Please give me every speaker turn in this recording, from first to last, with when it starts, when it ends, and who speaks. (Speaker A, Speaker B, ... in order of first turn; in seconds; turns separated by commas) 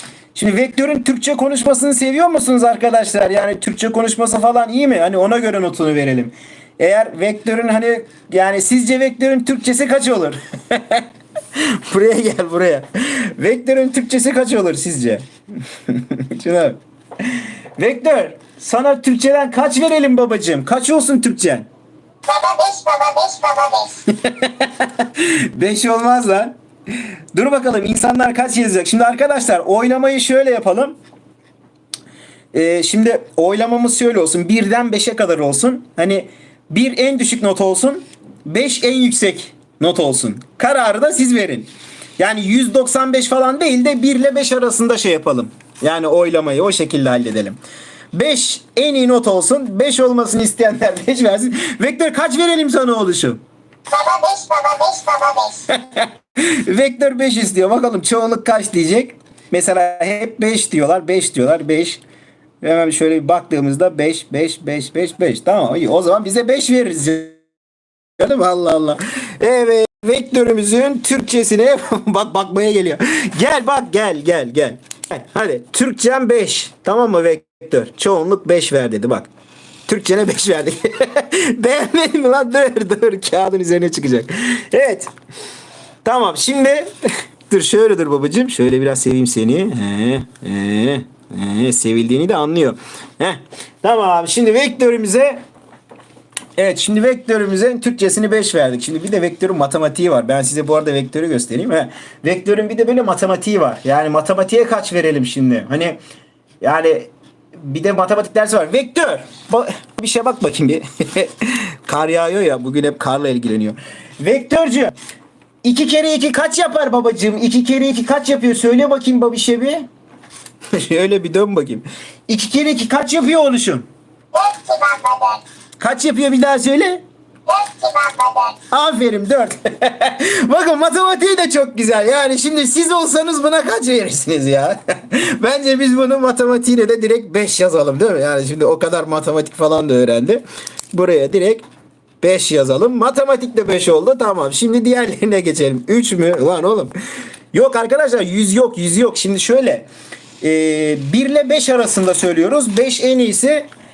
Speaker A: 0.3-21.7, Speaker B: 22.3-24.0, Speaker A: 24.2-26.5, Speaker A: 27.3-31.0, Speaker A: 32.5-47.6, Speaker A: 48.1-53.4, Speaker B: 53.9-55.7, Speaker A: 55.7-62.0, Speaker A: 62.6-67.4, Speaker A: 68.2-79.3, Speaker A: 79.9-85.1, Speaker A: 86.0-95.4, Speaker A: 96.6-106.0, Speaker A: 106.6-115.0, Speaker A: 115.6-119.9, Speaker A: 120.7-123.9, Speaker B: 124.3-125.4, Speaker A: 125.8-127.0, Speaker B: 127.5-128.6, Speaker A: 128.7-141.6, Speaker A: 142.2-146.9, Speaker A: 147.5-149.9, Speaker A: 150.4-153.7